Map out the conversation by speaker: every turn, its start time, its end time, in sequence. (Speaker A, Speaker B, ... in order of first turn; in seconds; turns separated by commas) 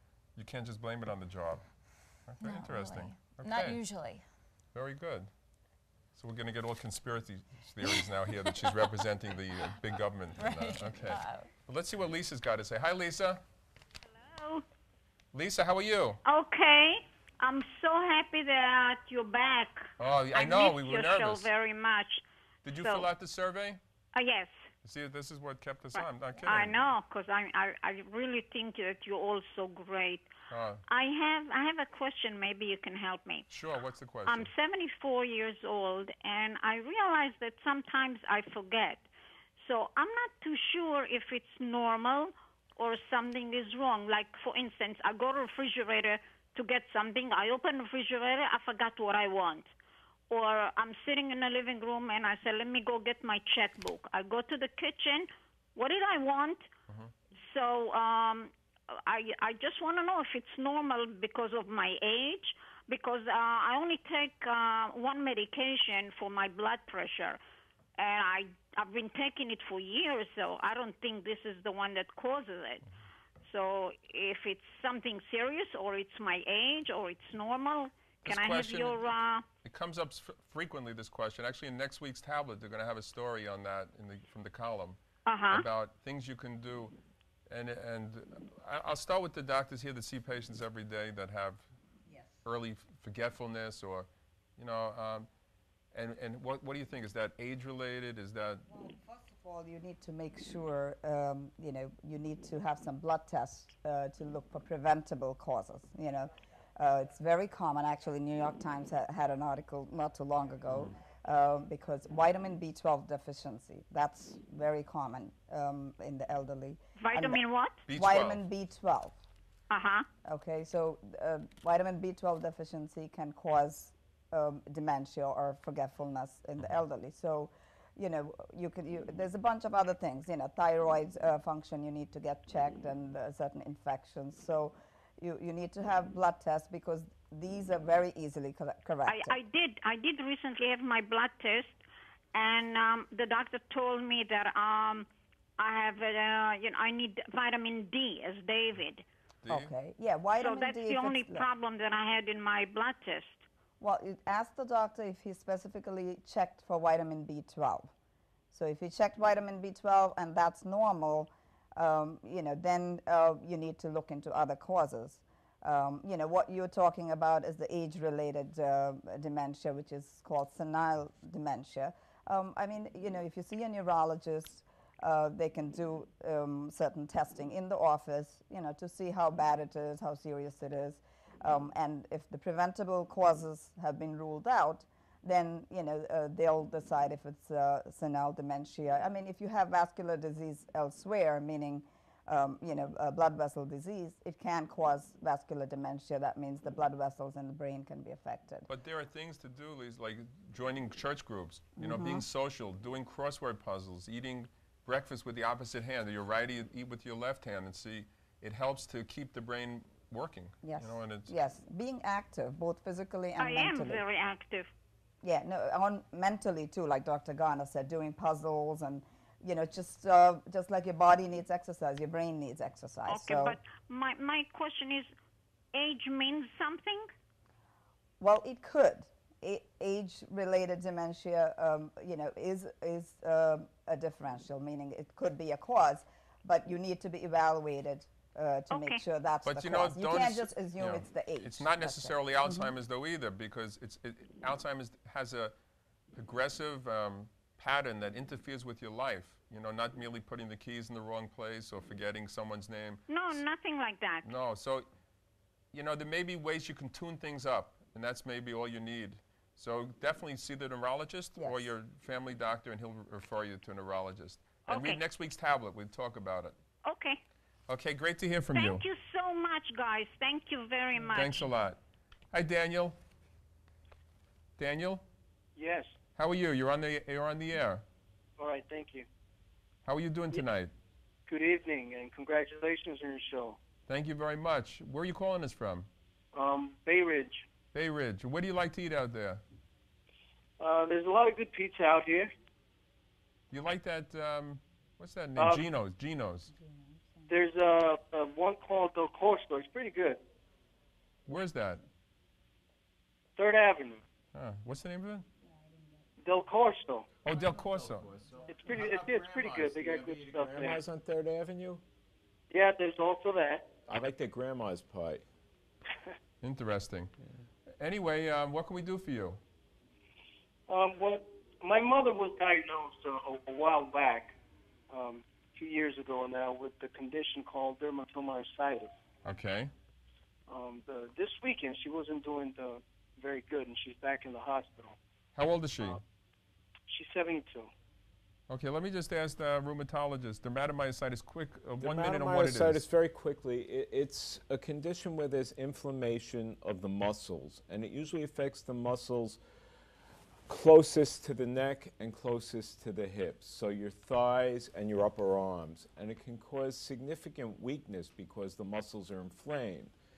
Speaker A: 0.3-1.6, Speaker A: 2.2-3.8, Speaker B: 2.4-4.2, Speaker A: 4.7-5.3, Speaker A: 6.1-13.4, Speaker B: 10.4-11.5, Speaker C: 14.3-14.6, Speaker A: 15.3-16.2, Speaker C: 16.2-23.1, Speaker A: 20.0-21.5, Speaker A: 22.6-23.8, Speaker C: 24.1-24.7, Speaker A: 24.8-26.8, Speaker C: 25.9-30.3, Speaker A: 30.5-30.8, Speaker C: 30.9-33.5, Speaker A: 33.5-34.5, Speaker C: 34.2-39.0, Speaker C: 39.6-49.7, Speaker C: 50.3-56.7, Speaker C: 57.4-67.4, Speaker C: 68.0-72.8, Speaker C: 73.4-79.5, Speaker A: 78.2-79.0, Speaker A: 79.6-85.0, Speaker C: 85.2-85.7, Speaker A: 85.5-86.9, Speaker A: 87.5-91.7, Speaker D: 92.1-92.3, Speaker A: 92.4-95.3, Speaker A: 95.9-98.6, Speaker D: 98.7-119.2, Speaker C: 117.0-117.8, Speaker A: 117.9-118.4, Speaker C: 119.7-120.1, Speaker D: 120.2-139.4, Speaker C: 139.1-141.8, Speaker C: 142.3-149.0, Speaker A: 149.4-149.7, Speaker D: 149.5-151.5, Speaker C: 150.4-153.4, Speaker D: 153.8-157.9, Speaker D: 158.5-198.7, Speaker A: 198.7-211.3, Speaker D: 201.8-202.2, Speaker D: 210.6-214.0, Speaker C: 213.4-214.7, Speaker D: 215.2-223.6, Speaker C: 223.1-225.1, Speaker C: 225.7-227.1, Speaker D: 228.2-242.7, Speaker C: 238.7-239.0, Speaker A: 239.4-245.5, Speaker A: 246.2-253.4, Speaker C: 253.1-254.2, Speaker A: 254.2-254.9, Speaker A: 255.7-266.5, Speaker D: 261.4-261.7, Speaker C: 264.7-265.0, Speaker C: 266.8-267.2, Speaker A: 267.7-268.8, Speaker C: 268.5-271.5, Speaker A: 271.1-271.8, Speaker A: 272.3-272.9, Speaker A: 274.6-275.0, Speaker E: 275.6-275.9, Speaker A: 276.2-277.8, Speaker E: 278.4-279.1, Speaker A: 279.9-280.7, Speaker E: 281.3-283.6, Speaker A: 283.9-285.9, Speaker E: 286.3-287.4, Speaker A: 287.7-289.4, Speaker E: 290.6-292.3, Speaker A: 293.5-296.5, Speaker E: 295.4-295.6, Speaker D: 296.5-297.3, Speaker E: 297.3-300.2, Speaker A: 301.2-301.8, Speaker E: 303.4-304.0, Speaker A: 304.3-305.3, Speaker E: 306.2-307.1, Speaker A: 307.2-308.1, Speaker F: 307.3-311.8, Speaker E: 308.5-310.8, Speaker E: 312.5-313.7, Speaker F: 313.9-315.2, Speaker A: 316.4-317.1, Speaker A: 317.8-319.4, Speaker E: 320.7-324.3, Speaker E: 324.9-328.9, Speaker A: 329.2-329.7, Speaker E: 330.5-334.9, Speaker A: 335.4-336.0, Speaker E: 336.9-337.7, Speaker A: 338.5-342.9, Speaker F: 341.8-349.4, Speaker F: 350.5-359.9